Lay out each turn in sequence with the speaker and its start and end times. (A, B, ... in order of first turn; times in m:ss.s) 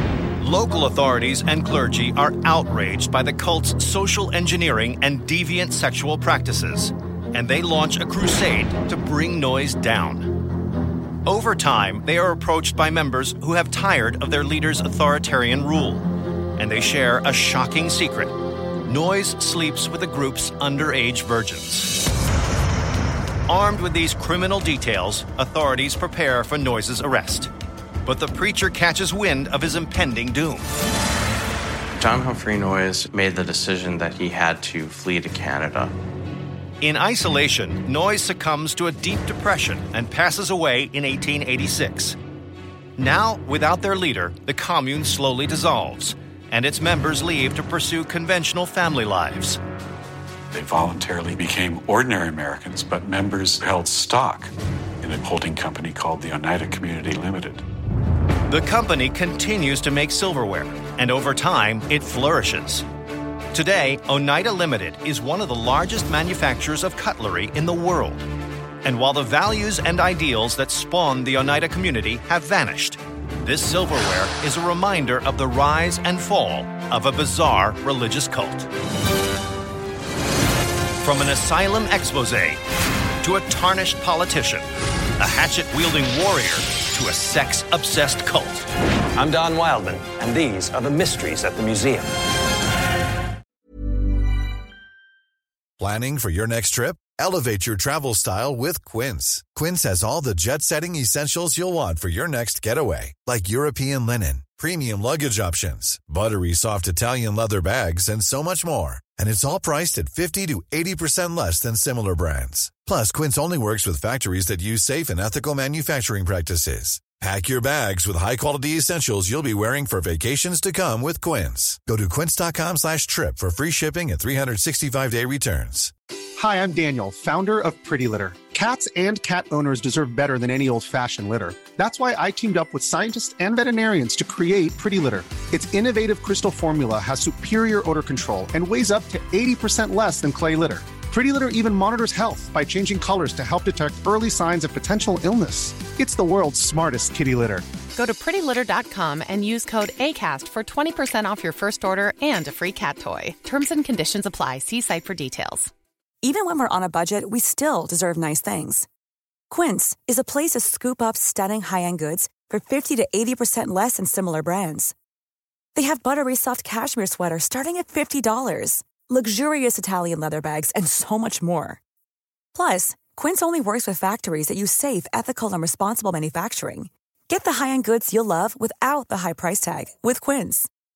0:00.4-0:10.3 A
0:11.2-0:21.9 A
0:23.5-0:27.5 A
0:28.0-0:30.7 A
0:31.9-0:35.9 B
0:36.8-0:42.2 A
0:43.0-0:49.6 A
0:50.5-0:57.6 C
0:58.5-1:02.8 A
1:03.5-1:08.2 A
1:08.8-1:18.7 A
1:21.0-1:22.6 A
1:23.2-1:24.7 A
1:25.2-1:28.7 A
1:29.2-1:32.1 D
1:35.8-2:05.9 E
2:06.4-2:27.6 F
2:27.9-2:35.7 G
2:36.2-2:38.8 H
2:39.5-2:44.9 H
2:45.7-2:51.8 H
2:52.5-3:00.7 H